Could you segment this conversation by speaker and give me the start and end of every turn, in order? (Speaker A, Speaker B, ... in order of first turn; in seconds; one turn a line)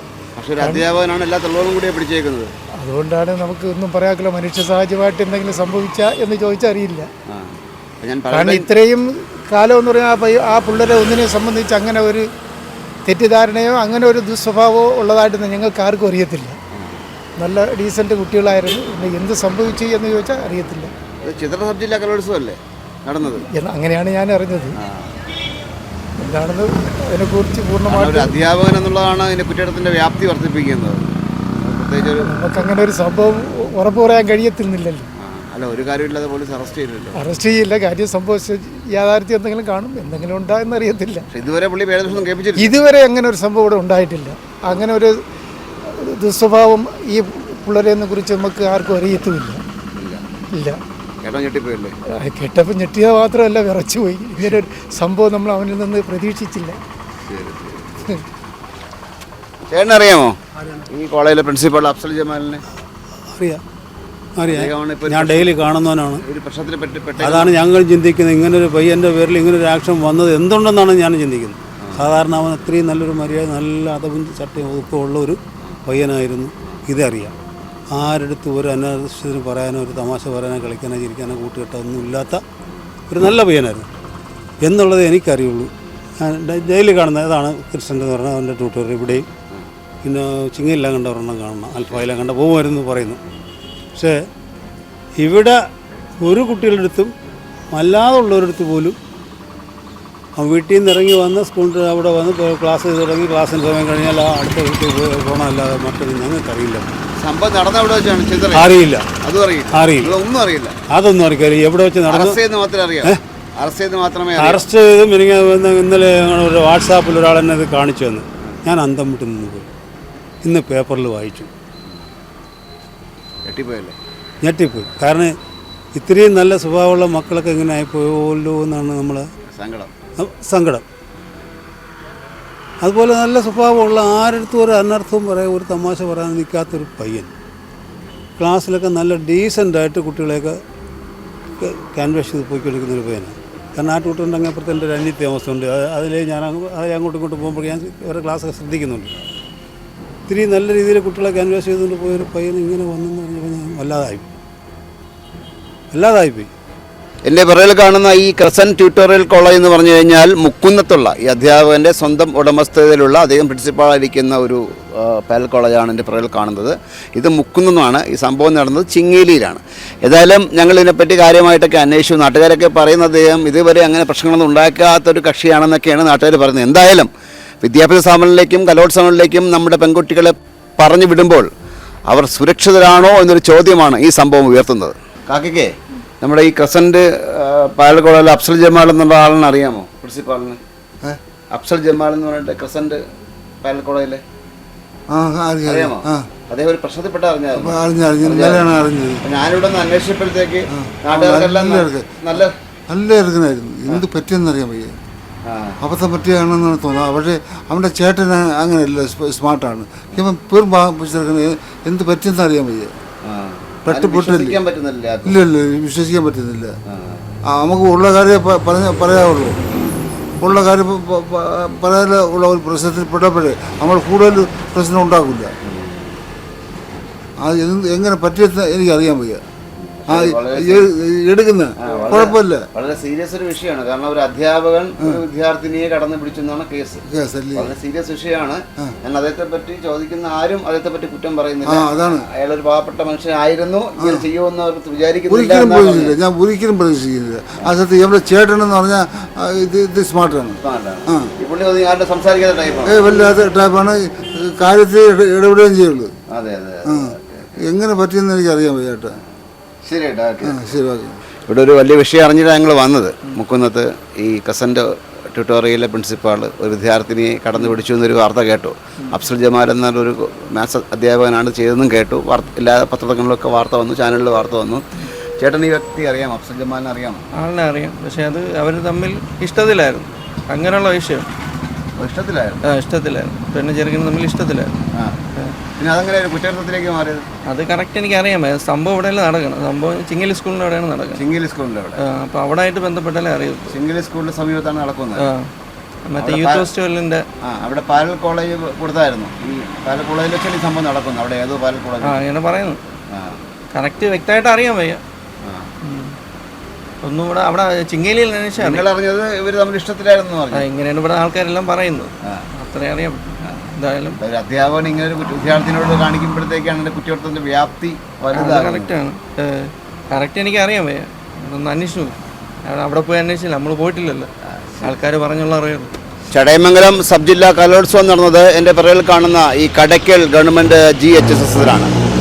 Speaker A: 0.4-2.5
Speaker B: 2.8-7.1
Speaker A: 7.3-8.7
Speaker B: 8.3-12.2
Speaker B: 13.1-16.5
Speaker A: 16.7-17.1
Speaker B: 17.4-20.9
Speaker A: 21.2-23.4
Speaker B: 23.5-24.8
Speaker A: 24.8-25.1
Speaker B: 26.2-28.3
Speaker A: 27.9-32.4
Speaker B: 32.0-35.1
Speaker A: 35.2-37.2
Speaker B: 37.1-41.2
Speaker A: 41.3-42.7
Speaker B: 42.6-45.1
Speaker B: 45.8-49.6
Speaker B: 50.5-50.8
Speaker A: 51.2-51.9
Speaker B: 52.2-56.8
Speaker A: 57.3-57.9
Speaker A: 59.7-60.3
Speaker A: 60.9-62.6
Speaker C: 63.3-63.6
Speaker C: 64.4-66.2
Speaker A: 64.5-65.6
Speaker A: 66.2-67.5
Speaker C: 67.2-77.3
Speaker C: 77.9-82.4
Speaker C: 83.1-83.9
Speaker C: 84.6-89.2
Speaker A: 89.1-89.6
Speaker C: 90.0-93.2
Speaker C: 95.2-95.5
Speaker C: 96.2-97.1
Speaker C: 97.7-99.0
Speaker C: 100.3-106.9
Speaker A: 107.2-108.7
Speaker C: 108.5-109.0
Speaker A: 109.2-110.7
Speaker C: 109.7-110.1
Speaker C: 110.9-112.4
Speaker A: 112.1-114.6
Speaker C: 114.3-119.7
Speaker C: 120.4-121.5
Speaker A: 123.4-123.9
Speaker C: 124.4-125.3
Speaker C: 125.9-129.2
Speaker A: 129.5-129.9
Speaker C: 130.2-130.8
Speaker C: 132.8-137.3
Speaker C: 138.4-140.6
Speaker C: 141.6-149.1
Speaker C: 150.3-154.3
Speaker C: 155.9-156.5
Speaker A: 157.2-177.1
Speaker A: 177.6-181.5
Speaker A: 182.1-190.6
Speaker A: 191.5-193.0
Speaker A: 193.6-194.2
Speaker D: 195.1-196.3
Speaker A: 195.7-198.7
Speaker D: 197.5-199.2
Speaker A: 199.2-202.5
Speaker D: 200.7-204.9
Speaker A: 205.4-205.8
Speaker D: 205.8-212.9
Speaker A: 213.2-215.4
Speaker D: 213.8-214.6
Speaker D: 215.2-216.7
Speaker A: 216.9-217.2
Speaker D: 217.5-219.6
Speaker A: 219.7-220.0
Speaker D: 220.4-225.5
Speaker A: 225.6-226.1
Speaker D: 227.4-229.4
Speaker A: 230.0-230.9
Speaker D: 230.1-232.7
Speaker A: 231.8-237.0
Speaker D: 237.1-237.7
Speaker A: 237.6-246.1
Speaker D: 241.7-242.3
Speaker D: 244.0-244.3
Speaker D: 245.3-251.3
Speaker A: 250.6-253.0
Speaker D: 252.8-256.1
Speaker A: 256.3-257.5
Speaker D: 256.9-259.1
Speaker A: 259.8-260.6
Speaker D: 260.4-261.2
Speaker A: 261.5-274.9
Speaker A: 275.4-277.2
Speaker E: 277.4-281.2
Speaker A: 282.0-282.6
Speaker E: 282.7-284.8
Speaker A: 285.8-287.2
Speaker E: 287.5-291.2
Speaker A: 291.1-292.0
Speaker E: 292.0-293.7
Speaker A: 293.7-295.2
Speaker E: 295.2-295.5
Speaker E: 296.1-297.2
Speaker A: 296.2-296.7
Speaker A: 297.4-302.2
Speaker E: 302.0-302.8
Speaker A: 303.1-303.4
Speaker E: 303.7-305.0
Speaker A: 305.4-305.7
Speaker E: 305.8-306.1
Speaker E: 307.0-308.8
Speaker A: 308.6-310.6
Speaker E: 310.5-314.2
Speaker A: 314.2-318.9
Speaker E: 318.3-324.3
Speaker E: 324.8-325.9
Speaker A: 326.3-331.9